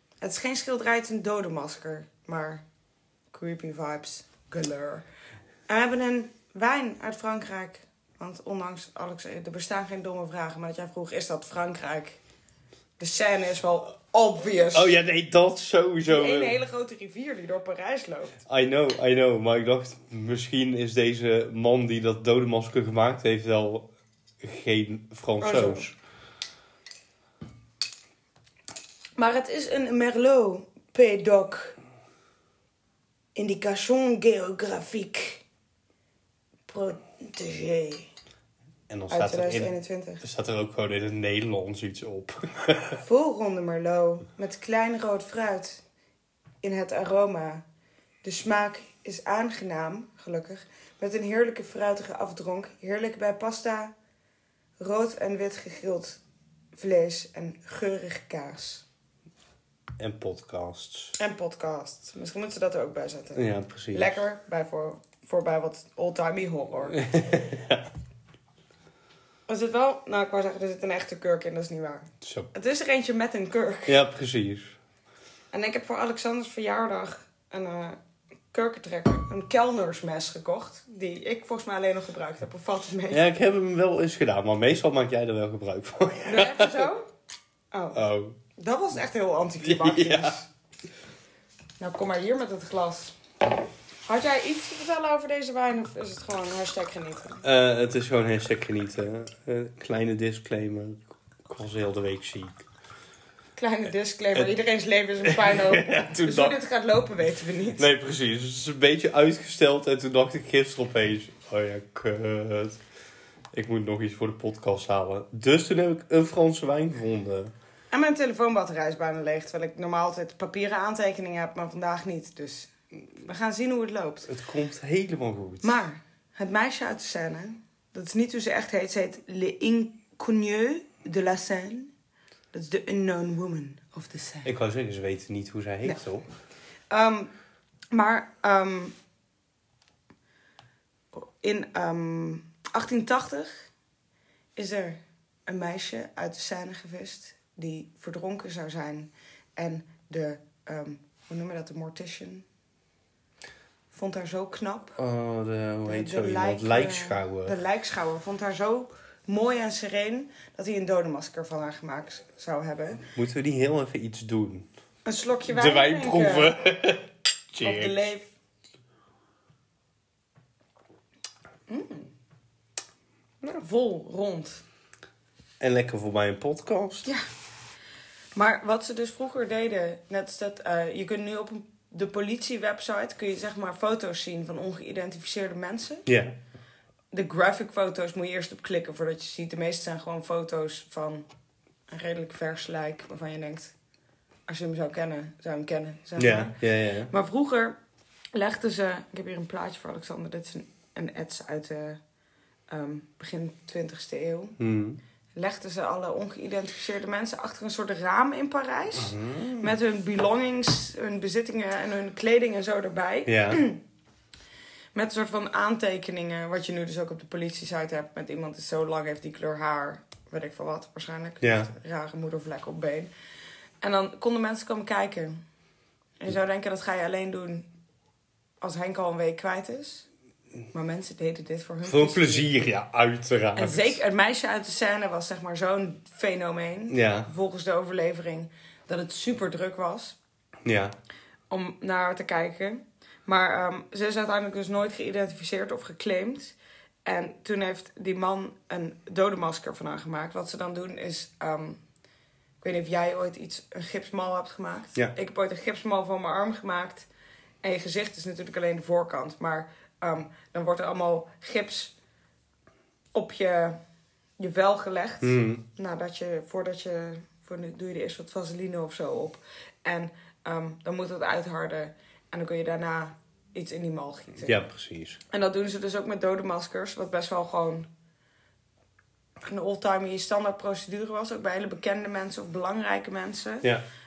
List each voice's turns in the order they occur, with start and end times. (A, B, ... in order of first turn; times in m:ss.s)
0:00.2-0:02.6 A
0:03.3-0:05.0 A
0:05.7-0:12.2 A
0:13.0-0:15.0 A
0:14.7-0:16.6 B
0:16.0-0:18.4 A
0:18.5-0:23.9 B
0:24.4-0:26.0 B
0:25.4-0:25.9 A
0:29.2-0:31.8 A
0:33.3-0:35.4 A
0:36.7-0:38.1 A
0:38.9-0:43.0 B
0:39.1-0:40.2 A
0:43.0-0:45.8 A
0:46.6-0:47.6 A
0:48.2-0:53.9 A
0:54.8-0:56.2 A
0:56.8-0:58.9 A
1:00.0-1:01.2 B
1:01.2-1:07.0 A
1:03.3-1:04.2 B
1:06.9-1:07.9 B
1:09.5-1:14.0 A
1:12.2-1:12.5 B
1:13.9-1:14.8 B
1:15.5-1:18.0 A
1:18.5-1:23.2 A
1:23.1-1:26.9 B
1:26.2-1:27.1 A
1:27.7-1:28.0 A
1:27.9-1:28.4 B
1:28.6-1:30.5 A
1:29.6-1:30.4 B
1:31.8-1:33.2 A
1:34.1-1:37.4 A
1:37.4-1:42.7 B
1:43.6-1:47.9 A
1:45.2-1:46.6 B
1:47.8-1:52.8 B
1:53.5-1:57.5 B
1:57.9-2:04.3 A
2:04.3-2:05.8 B
2:05.6-2:11.9 A
2:12.5-2:14.5 A
2:14.4-2:16.2 B
2:16.9-2:17.3 A
2:17.9-2:18.9 A
2:21.1-2:23.6 A
2:24.6-2:32.5 A
2:33.9-2:35.0 A
2:35.0-2:37.6 B
2:35.9-2:43.0 A
2:43.2-2:44.7 B
2:45.0-2:46.5 A
2:45.5-2:48.0 B
2:47.6-2:48.3 A
2:51.7-2:52.1 A
2:53.4-2:54.6 A
2:55.6-2:57.1 B
2:58.3-3:06.1 A
3:06.1-3:06.3 B
3:07.1-3:11.3 A
3:11.9-3:13.8 A
3:14.5-3:16.5 A
3:16.2-3:17.1 B
3:17.1-3:17.8 A
3:18.3-3:22.0 A
3:22.7-3:24.6 A
3:24.6-3:25.0 B
3:25.4-3:33.8 A
3:29.0-3:29.8 B
3:33.3-3:33.6 B
3:34.9-3:43.1 A
3:41.4-3:41.7 B
3:43.8-3:45.4 A
3:46.2-3:47.7 A
3:48.6-3:50.1 A
3:50.7-3:52.5 A
3:51.8-3:54.0 B
3:53.6-4:00.2 A
3:56.9-3:57.3 B
4:00.6-4:01.0 B
4:01.5-4:11.8 A
4:12.6-4:17.1 A
4:17.6-4:21.9 A
4:23.1-4:23.8 A
4:24.4-4:34.6 A
4:25.2-4:25.6 B
4:34.4-4:35.2 B
4:35.3-4:37.9 A
4:39.4-4:43.7 A